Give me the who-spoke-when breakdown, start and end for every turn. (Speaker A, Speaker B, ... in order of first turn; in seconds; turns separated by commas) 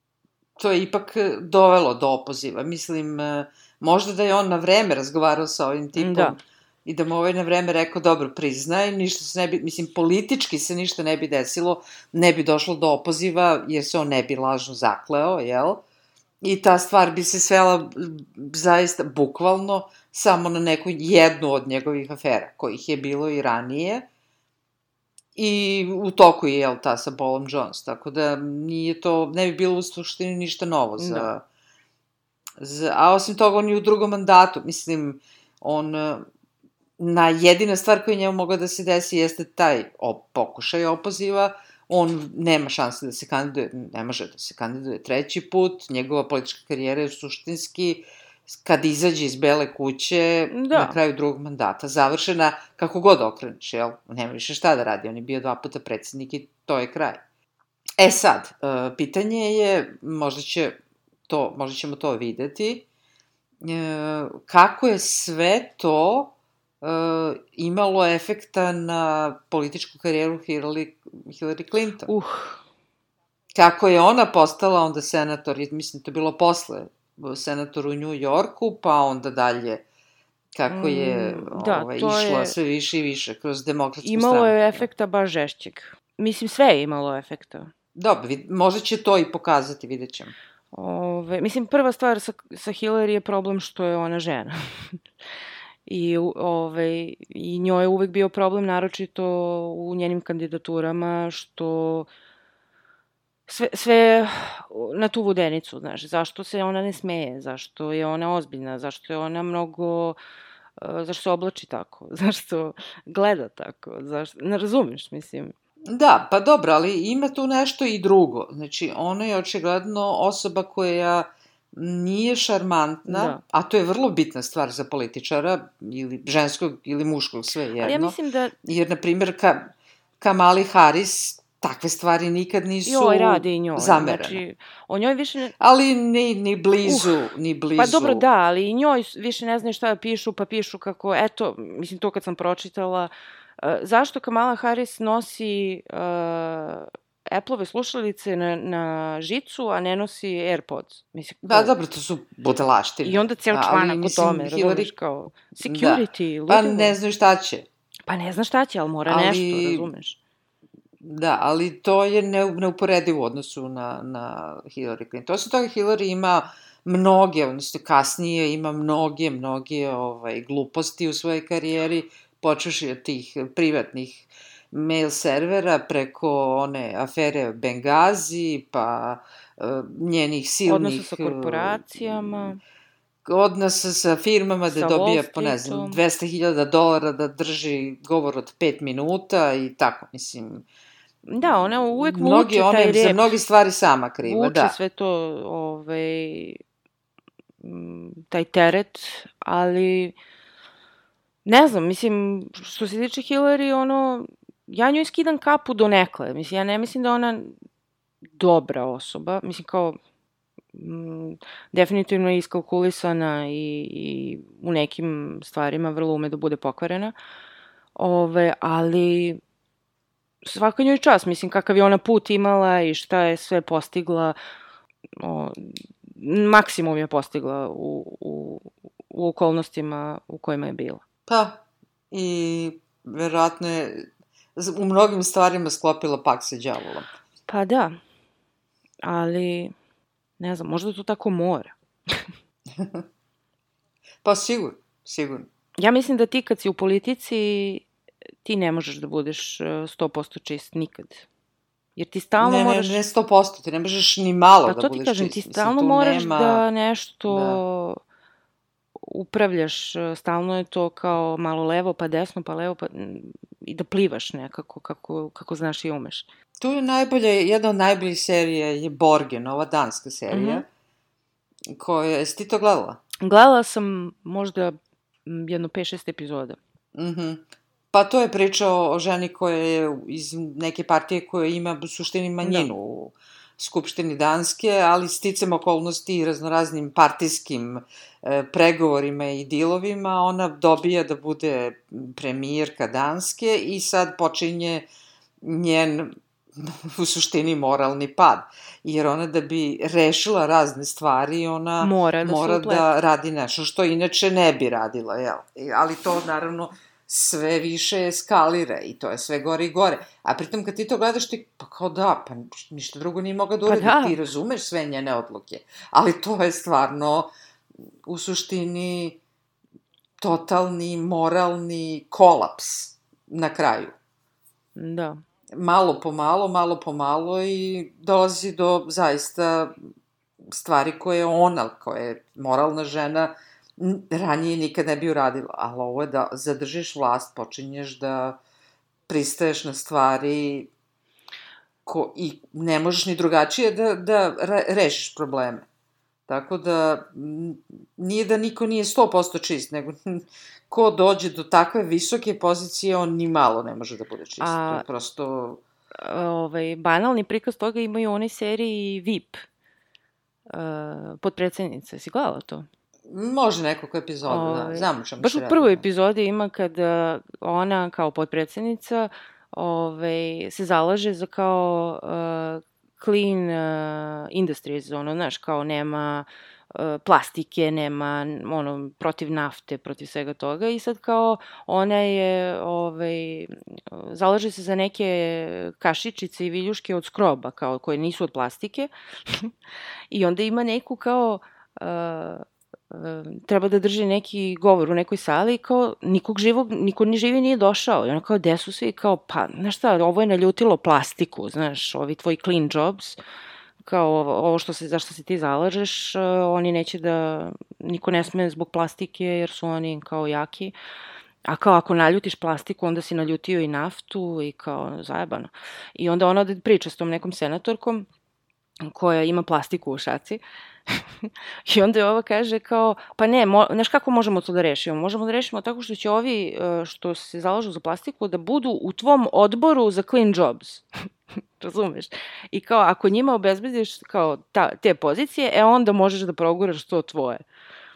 Speaker A: 0.6-15.8, Speaker B: 6.0-6.4, Speaker A: 16.4-24.1, Speaker A: 25.4-31.4, Speaker B: 31.0-31.3, Speaker A: 32.6-36.3, Speaker A: 37.0-57.2, Speaker B: 50.5-51.0, Speaker A: 58.0-60.8, Speaker A: 61.3-62.9, Speaker A: 63.6-72.1, Speaker B: 72.1-72.6, Speaker A: 73.5-79.8, Speaker A: 80.5-84.9, Speaker B: 80.7-82.6, Speaker B: 84.0-87.7, Speaker A: 88.0-90.3, Speaker B: 90.7-95.0, Speaker B: 95.9-102.1, Speaker B: 103.5-110.2, Speaker B: 110.8-115.5, Speaker A: 115.9-134.4, Speaker B: 123.1-123.4, Speaker B: 127.8-128.5, Speaker B: 132.9-135.5, Speaker A: 135.6-138.2, Speaker B: 136.8-137.1, Speaker B: 137.8-151.7, Speaker A: 151.4-154.9, Speaker B: 153.0-157.0, Speaker A: 155.7-157.7, Speaker B: 158.1-160.2, Speaker A: 159.1-159.9, Speaker A: 161.0-182.5, Speaker B: 180.7-182.6, Speaker A: 183.2-190.7, Speaker B: 184.7-186.0, Speaker B: 191.2-193.3, Speaker A: 191.6-194.8, Speaker B: 194.2-196.6, Speaker B: 197.6-200.2, Speaker B: 201.4-207.6, Speaker B: 208.4-210.0, Speaker B: 210.7-217.1, Speaker B: 218.0-219.4, Speaker B: 220.4-224.4, Speaker B: 225.2-231.0, Speaker A: 231.3-237.1, Speaker B: 237.5-238.0, Speaker B: 239.0-239.7, Speaker B: 240.4-242.3, Speaker A: 242.7-243.0, Speaker A: 244.2-245.5, Speaker B: 245.8-247.9, Speaker B: 248.4-251.3, Speaker B: 252.0-253.0, Speaker A: 252.4-256.6, Speaker B: 254.7-258.0, Speaker A: 257.3-257.6, Speaker B: 259.0-266.3, Speaker A: 266.6-270.7, Speaker B: 270.3-270.6, Speaker A: 271.7-273.0, Speaker B: 273.2-274.8, Speaker B: 275.3-276.6, Speaker A: 276.9-294.9, Speaker B: 282.4-282.7, Speaker A: 295.4-317.3, Speaker B: 301.8-302.9, Speaker B: 313.7-314.2, Speaker A: 318.1-319.2, Speaker A: 320.2-323.9, Speaker B: 324.8-325.2, Speaker A: 325.6-329.8, Speaker A: 330.4-338.4, Speaker A: 339.1-340.7, Speaker A: 341.9-345.7, Speaker A: 346.3-355.6, Speaker B: 354.4-354.9, Speaker B: 356.0-359.4, Speaker B: 360.5-362.7, Speaker A: 363.1-365.8, Speaker B: 364.3-389.5, Speaker B: 390.1-403.2, Speaker B: 403.8-410.8, Speaker B: 411.4-418.1, Speaker B: 418.9-430.9, Speaker B: 431.6-437.4